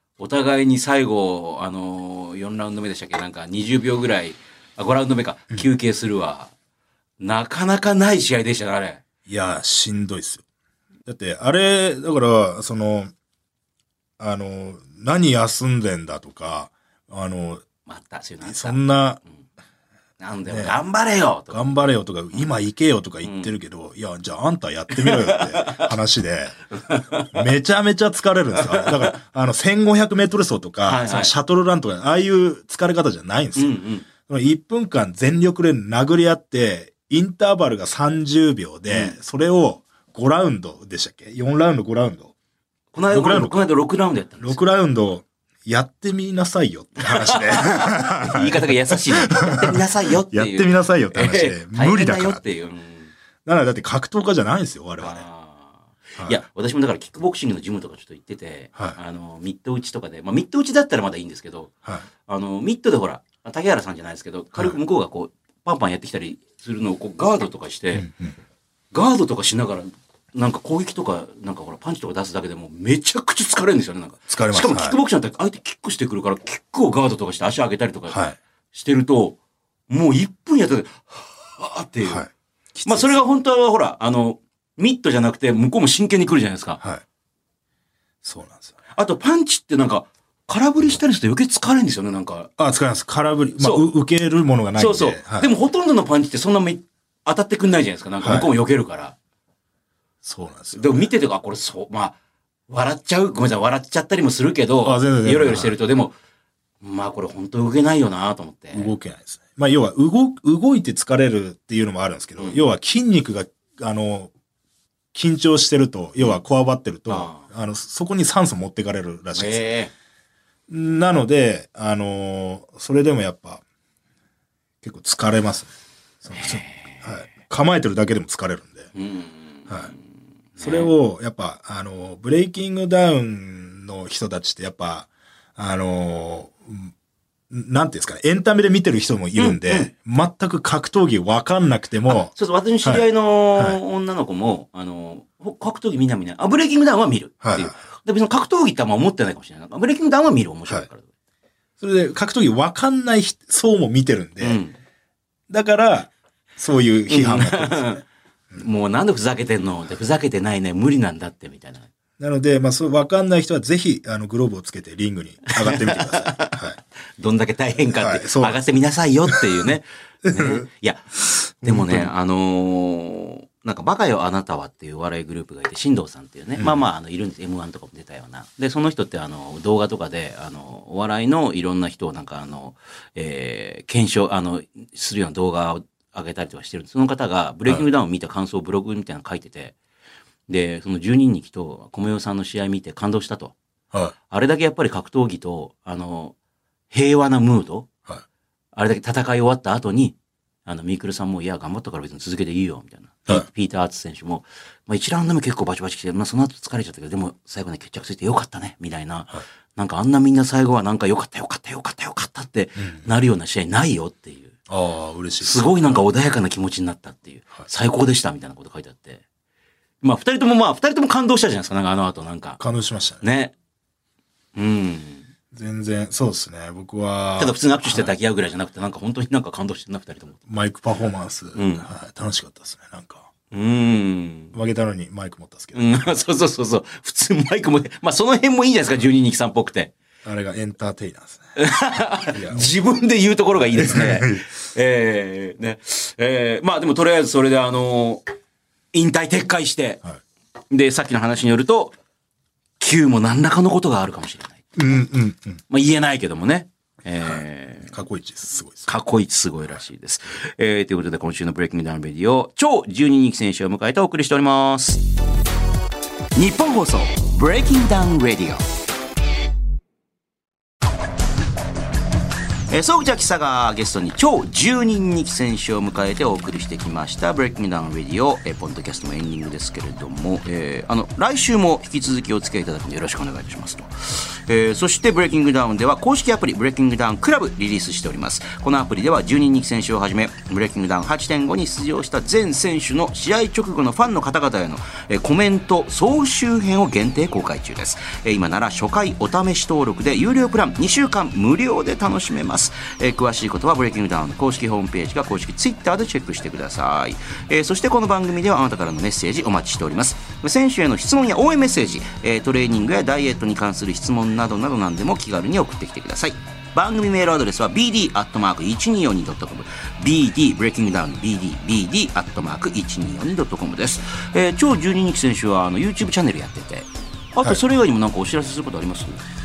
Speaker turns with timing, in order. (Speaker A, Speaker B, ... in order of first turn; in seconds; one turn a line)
Speaker A: 0.2-6.5
Speaker A: 7.2-9.0
Speaker B: 9.3-10.4
Speaker B: 11.1-13.1
Speaker B: 14.2-17.6
Speaker A: 17.9-18.8
Speaker B: 18.4-19.2
Speaker A: 20.2-21.9
Speaker B: 20.5-20.8
Speaker B: 21.5-26.6
Speaker A: 23.2-23.5
Speaker A: 24.9-25.9
Speaker A: 26.8-27.4
Speaker B: 27.3-42.3
Speaker A: 28.6-29.2
Speaker A: 30.9-31.3
Speaker A: 33.6-34.1
Speaker A: 38.9-39.2
Speaker A: 42.9-44.6
Speaker B: 43.1-43.7
Speaker B: 44.4-52.4
Speaker A: 47.0-53.1
Speaker B: 53.5-55.2
Speaker A: 55.0-61.7
Speaker A: 62.3-68.1
Speaker B: 67.9-68.4
Speaker A: 68.9-79.4
Speaker B: 74.3-75.0
Speaker B: 78.1-78.4
Speaker A: 79.9-82.2
Speaker B: 82.0-83.2
Speaker A: 82.8-86.8
Speaker B: 88.2-88.7
Speaker A: 89.0-92.5
Speaker B: 92.6-95.5
Speaker A: 94.8-99.2
Speaker B: 98.2-98.5
Speaker B: 100.2-101.1
Speaker A: 100.7-102.2
Speaker A: 102.7-106.2
Speaker B: 104.8-105.8
Speaker A: 106.8-108.9
Speaker B: 108.7-114.3
Speaker B: 115.1-119.7
Speaker A: 117.1-117.4
Speaker A: 119.4-119.9
Speaker B: 120.7-123.6
Speaker B: 124.8-128.9
Speaker A: 126.3-127.1
Speaker A: 128.9-130.0
Speaker A: 130.6-130.9
Speaker B: 130.6-136.9
Speaker B: 137.5-142.3
Speaker A: 139.4-139.9
Speaker A: 142.1-151.1
Speaker B: 142.8-143.8
Speaker B: 147.4-147.8
Speaker B: 151.8-154.6
Speaker A: 154.4-154.8
Speaker B: 155.5-158.0
Speaker A: 157.1-158.0
Speaker A: 158.6-161.9
Speaker B: 162.2-166.8
Speaker A: 165.5-166.6
Speaker A: 167.2-189.8
Speaker B: 167.9-168.6
Speaker B: 170.2-170.7
Speaker B: 171.6-172.1
Speaker A: 190.5-193.6
Speaker A: 194.3-196.3
Speaker A: 196.9-197.9
Speaker A: 198.8-214.6
Speaker B: 212.8-213.1
Speaker B: 214.7-216.1
Speaker A: 215.4-219.2
Speaker A: 220.0-222.6
Speaker B: 222.6-223.2
Speaker A: 223.2-223.5
Speaker A: 224.6-225.3
Speaker B: 225.5-228.1
Speaker A: 227.4-230.4
Speaker B: 230.5-233.3
Speaker A: 231.6-231.9
Speaker A: 233.5-234.6
Speaker B: 234.5-236.1
Speaker A: 235.8-239.9
Speaker B: 240.2-241.5
Speaker A: 241.6-248.2
Speaker B: 242.3-242.7
Speaker B: 243.7-244.4
Speaker A: 248.9-250.0
Speaker A: 250.7-252.0
Speaker A: 252.8-254.6
Speaker B: 254.8-255.6
Speaker A: 255.7-258.0
Speaker B: 257.9-258.9
Speaker A: 258.9-265.0
Speaker A: 266.4-268.6
Speaker A: 272.7-329.2